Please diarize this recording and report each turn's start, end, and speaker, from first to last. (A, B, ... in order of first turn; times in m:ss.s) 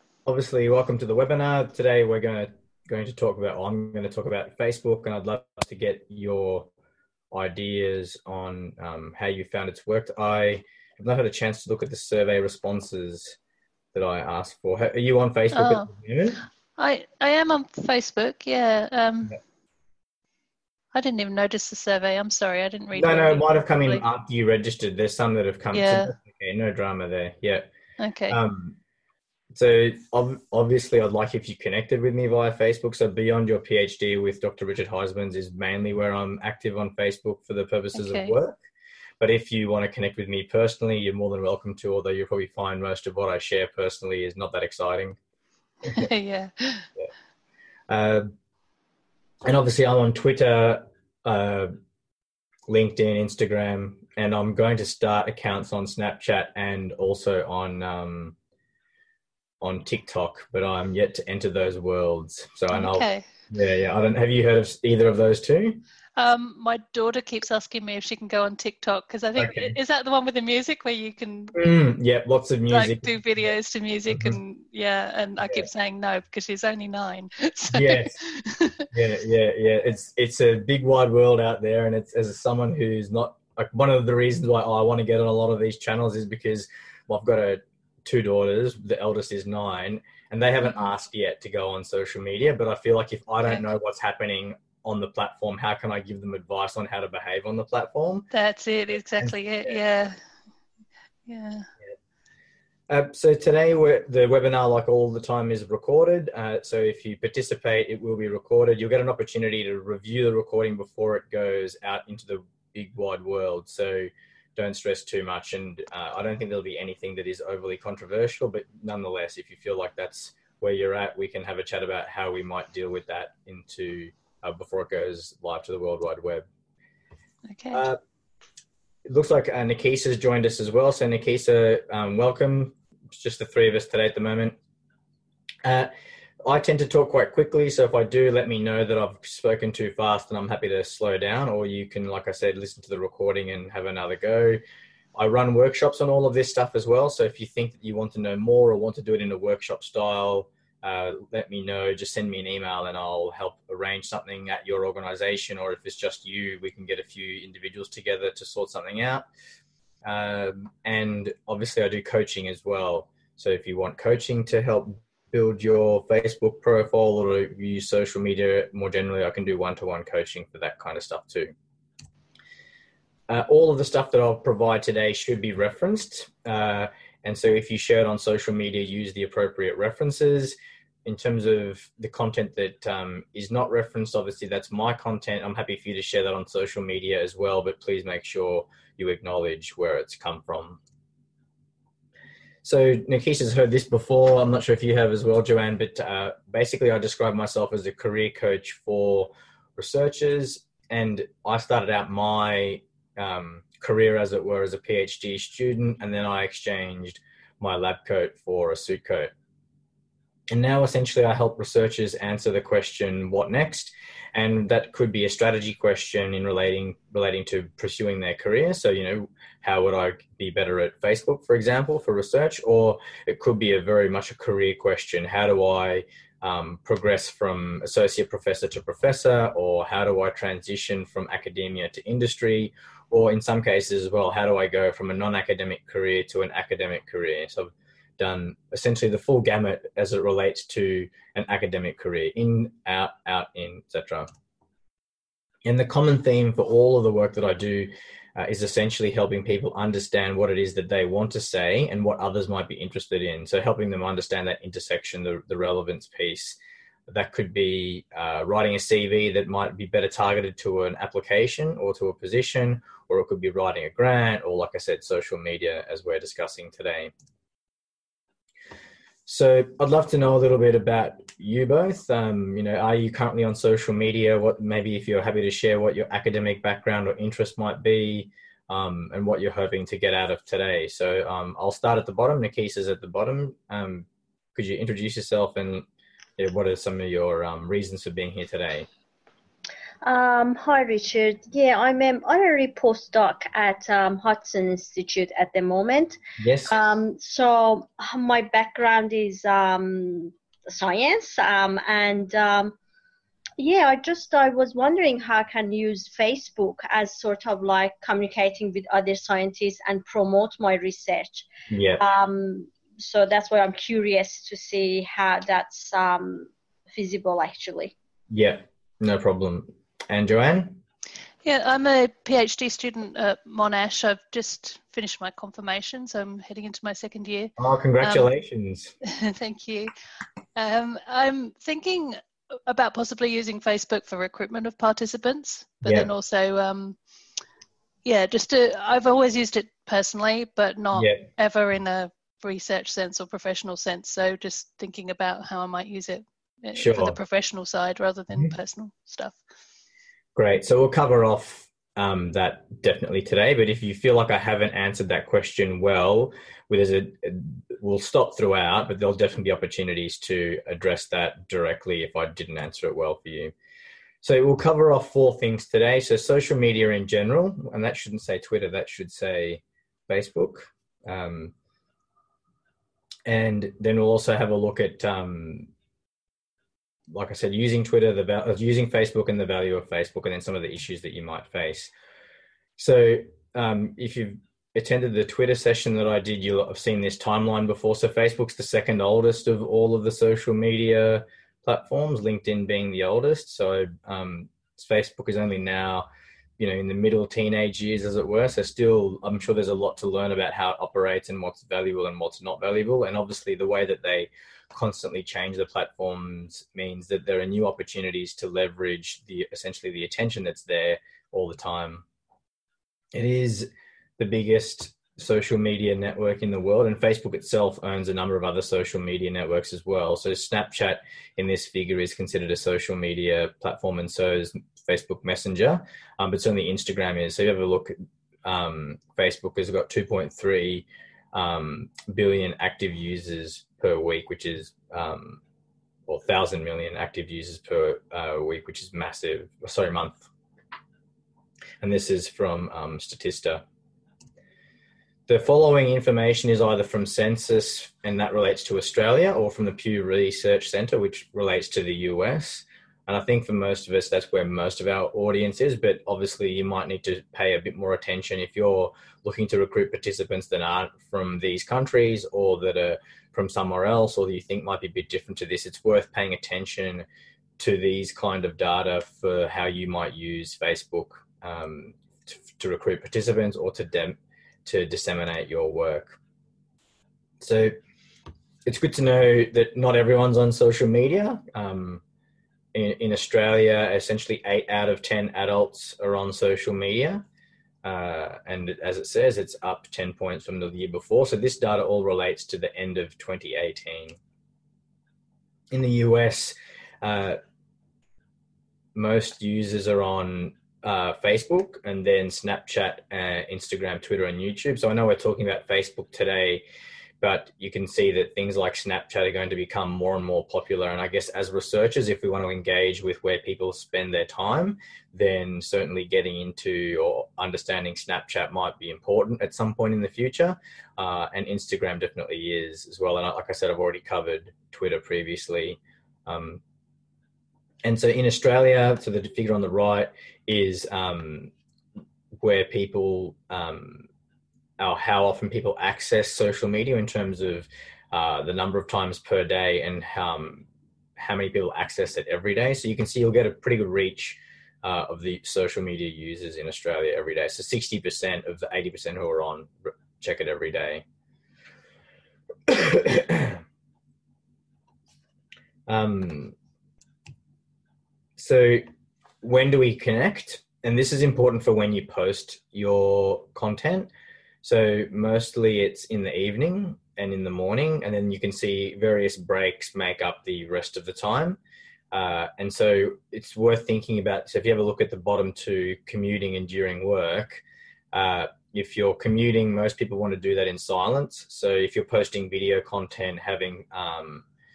0:00.3-0:06.7 A
0:07.3-0:13.4 A
0:13.9-0:16.4 A
0:15.5-0:15.9 B
0:16.8-0:19.4 B
0:20.9-0:24.0 B
0:22.9-0:27.7 A
0:25.7-0:26.1 B
0:28.0-0:28.4 B
0:28.3-0:28.8 A
0:29.6-0:38.6 A
0:38.0-0:38.4 B
0:39.2-0:45.2 A
0:45.9-0:46.9 B
0:47.9-0:48.3 A
0:49.4-0:51.7 A
0:52.7-0:58.4 A
0:59.6-1:05.8 A
1:02.7-1:03.3 B
1:06.2-1:11.6 B
1:09.4-1:09.8 A
1:11.6-1:13.1 A
1:12.7-1:18.9 B
1:14.1-1:14.4 A
1:15.4-1:15.7 A
1:17.7-1:18.2 A
1:18.9-1:38.3 A
1:38.3-1:40.2 B
1:39.2-1:39.8 A
1:41.3-1:41.7 B
1:42.9-2:06.4 A
2:07.5-2:07.8 B
2:07.7-2:08.0 A
2:09.1-2:14.6 A
2:15.6-2:15.9 A
2:16.4-2:24.6 A
2:25.2-2:39.3 A
2:40.0-2:51.5 A
2:53.3-3:10.8 A
3:12.6-3:29.3 A
3:30.5-4:04.3 A
4:05.6-4:27.1 A
4:29.3-4:45.8 A
4:46.4-4:48.9 A
4:50.0-5:02.8 C
4:56.4-4:56.9 A
5:03.6-5:11.5 C
5:11.7-5:12.0 A
5:12.0-5:17.9 C
5:18.3-5:20.8 A
5:21.4-5:28.3 B
5:27.6-5:28.9 A
5:29.0-5:29.9 B
5:30.6-5:37.0 B
5:35.8-5:36.1 A
5:38.0-5:49.4 B
5:41.0-5:41.2 A
5:46.8-5:47.2 A
5:50.4-6:03.5 A
6:04.2-6:11.5 A
6:13.3-6:15.7 A
6:17.1-6:21.9 A
6:22.8-6:36.1 A
6:36.6-6:52.0 A
6:53.1-7:07.9 A
7:08.4-7:15.4 A
7:16.1-7:20.3 A
7:21.8-7:23.6 A
7:25.3-7:47.0 A
7:47.6-7:56.2 A
7:57.4-7:57.8 A
7:58.7-8:02.0 A
8:02.7-8:07.2 A
8:07.8-8:14.2 A
8:15.7-8:17.4 A
8:19.0-8:26.6 A
8:27.2-8:46.6 A
8:47.8-8:51.5 A
8:52.4-8:54.1 A
8:54.8-9:00.7 A
9:01.2-9:11.0 A
9:12.7-9:13.6 A
9:15.9-9:16.6 A
9:18.4-9:18.8 A
9:19.4-9:24.1 A
9:24.6-9:31.6 A
9:32.1-9:44.4 A